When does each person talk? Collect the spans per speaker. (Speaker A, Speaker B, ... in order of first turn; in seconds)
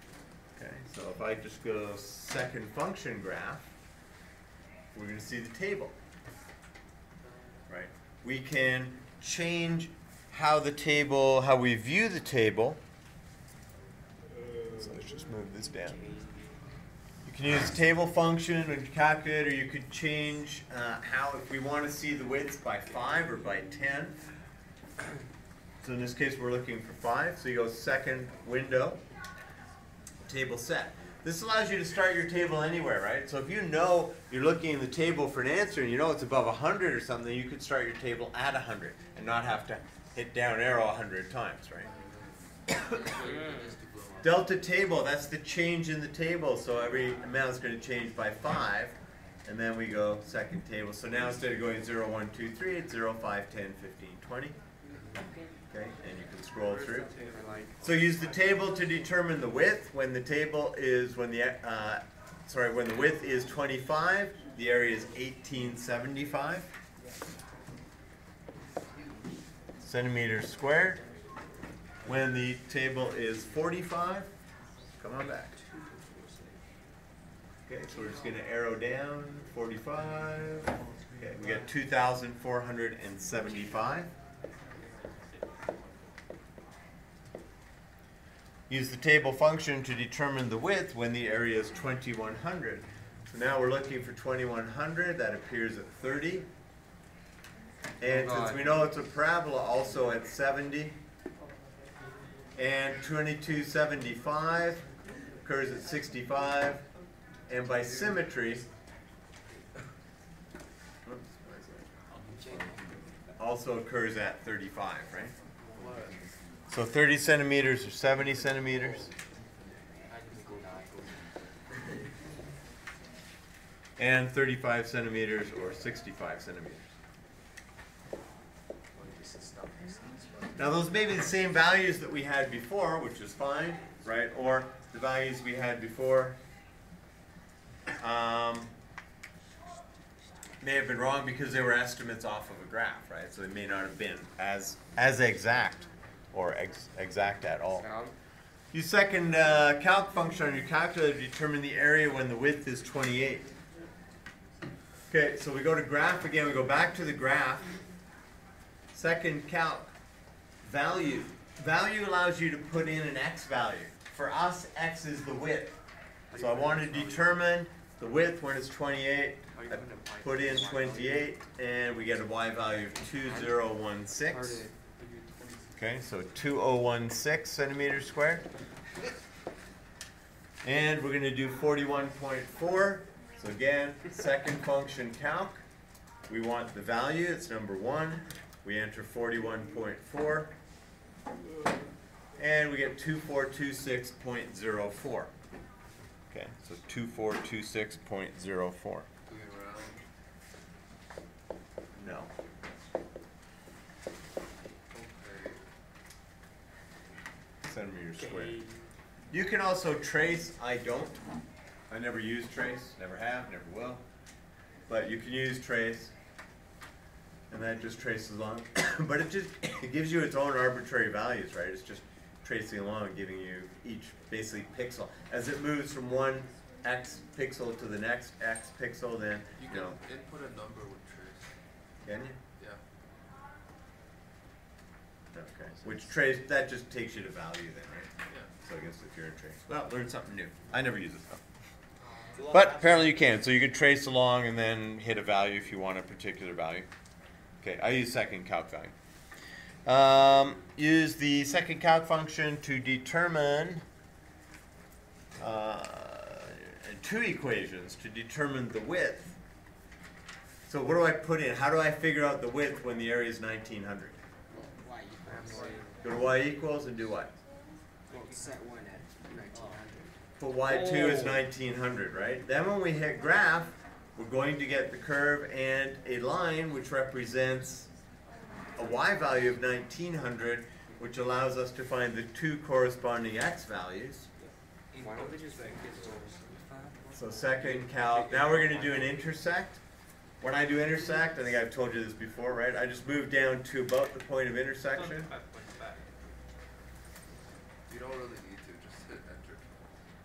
Speaker A: 0.6-3.7, 4.9-6.0, 7.7-12.8, 14.7-16.0, 17.2-24.2, 25.8-29.0, 30.2-41.9, 42.7-43.0, 44.2-54.6, 55.7-57.1, 57.8-66.7, 69.8-71.0, 72.0-74.3, 75.0-75.6, 77.7-84.1, 88.7-96.5, 98.0-101.0, 102.6-104.8, 105.4-106.8, 107.5-108.7, 111.0-111.9, 113.4-115.3, 116.7-119.1, 124.0-126.9, 130.6-136.4, 138.0-138.7, 140.6-147.9, 148.7-153.5, 155.1-157.7, 158.9-159.9, 160.6-165.7, 166.3-174.6, 175.8-178.4, 180.6-185.6, 186.3-190.5, 192.4-195.3, 196.3-199.1, 202.0-202.3, 207.7-208.6, 209.3-211.2, 211.9-214.0, 214.9-216.1, 217.5-230.0, 232.1-232.4, 235.3-238.1, 238.6-241.4, 242.5-246.9, 247.6-248.9, 249.8-253.8, 255.4-259.4, 260.7-264.2, 266.0-267.3, 270.4-277.9, 278.8-284.3, 287.1-289.8, 290.4-295.3
Speaker B: 41.8-44.4, 54.9-55.2, 56.6-57.7, 115.7-116.2, 199.3-200.0, 204.9-205.6, 229.6-231.5, 242.0-242.5, 284.4-286.7, 287.5-289.2, 294.9-296.2, 297.9-299.7
Speaker C: 43.2-43.7, 57.3-57.6, 98.1-98.7, 112.1-112.8, 120.1-121.3, 147.8-148.1, 166.3-167.3, 169.5-171.2, 173.3-173.5, 174.3-175.6, 208.2-208.9, 242.3-243.3, 265.3-265.9, 270.6-271.4, 285.0-286.4
Speaker D: 129.0-130.5, 264.5-265.8, 268.1-270.2